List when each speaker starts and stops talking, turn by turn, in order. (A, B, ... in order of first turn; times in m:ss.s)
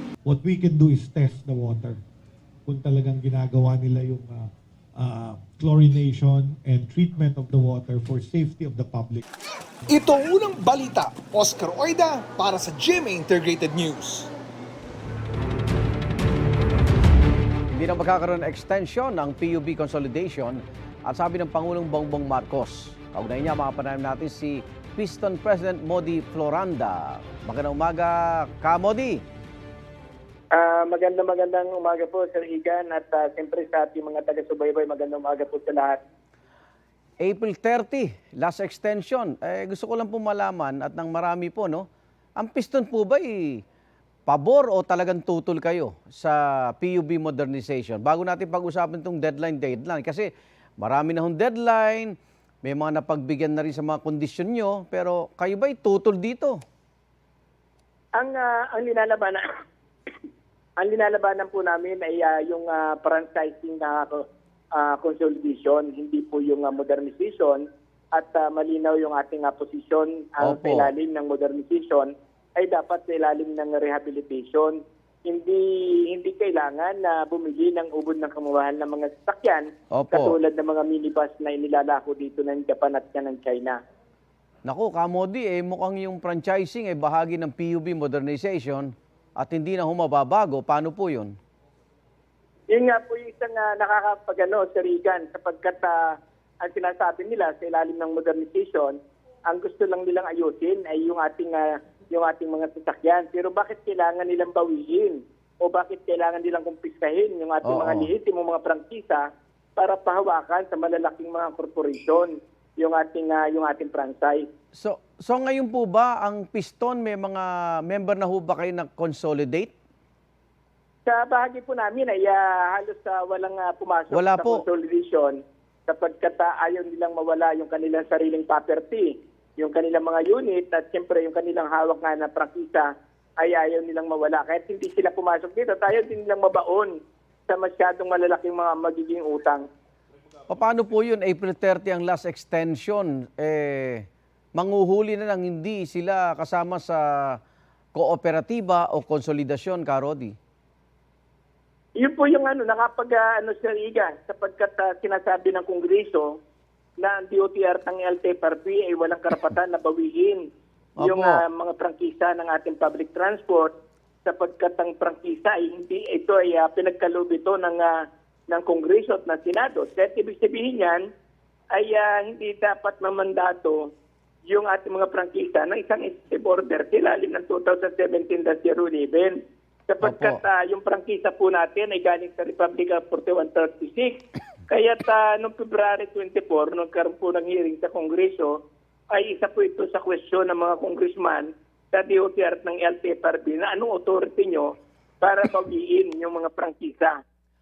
0:00.2-0:02.0 A
0:02.7-0:09.2 A
0:09.9-0:14.3 B
0:17.7-0:29.2 C
0:30.5-0:36.0 D
0:37.2-0:41.9 C
0:42.4-0:43.6 C
0:44.3-0:50.3 C
0:50.8-0:56.6 C
0:58.2-0:59.4 D
1:00.8-1:04.2 D
1:04.8-1:23.8 D
1:10.5-1:10.9 C
1:19.9-1:20.3 C
1:24.6-1:31.4 C
1:32.7-1:54.5 D
1:47.7-1:48.1 C
1:54.8-1:59.8 C
2:01.1-2:17.0 D
2:04.1-2:04.6 C
2:17.5-2:19.7 D
2:20.5-2:27.4 C
2:28.0-2:30.4 C
2:32.0-2:36.4 D
2:37.0-2:40.4 D
2:41.0-2:41.4 C
2:41.0-2:51.1 D
2:51.7-2:53.9 D
2:54.5-3:08.6 D
3:00.0-3:00.4 C
3:09.1-3:17.2 D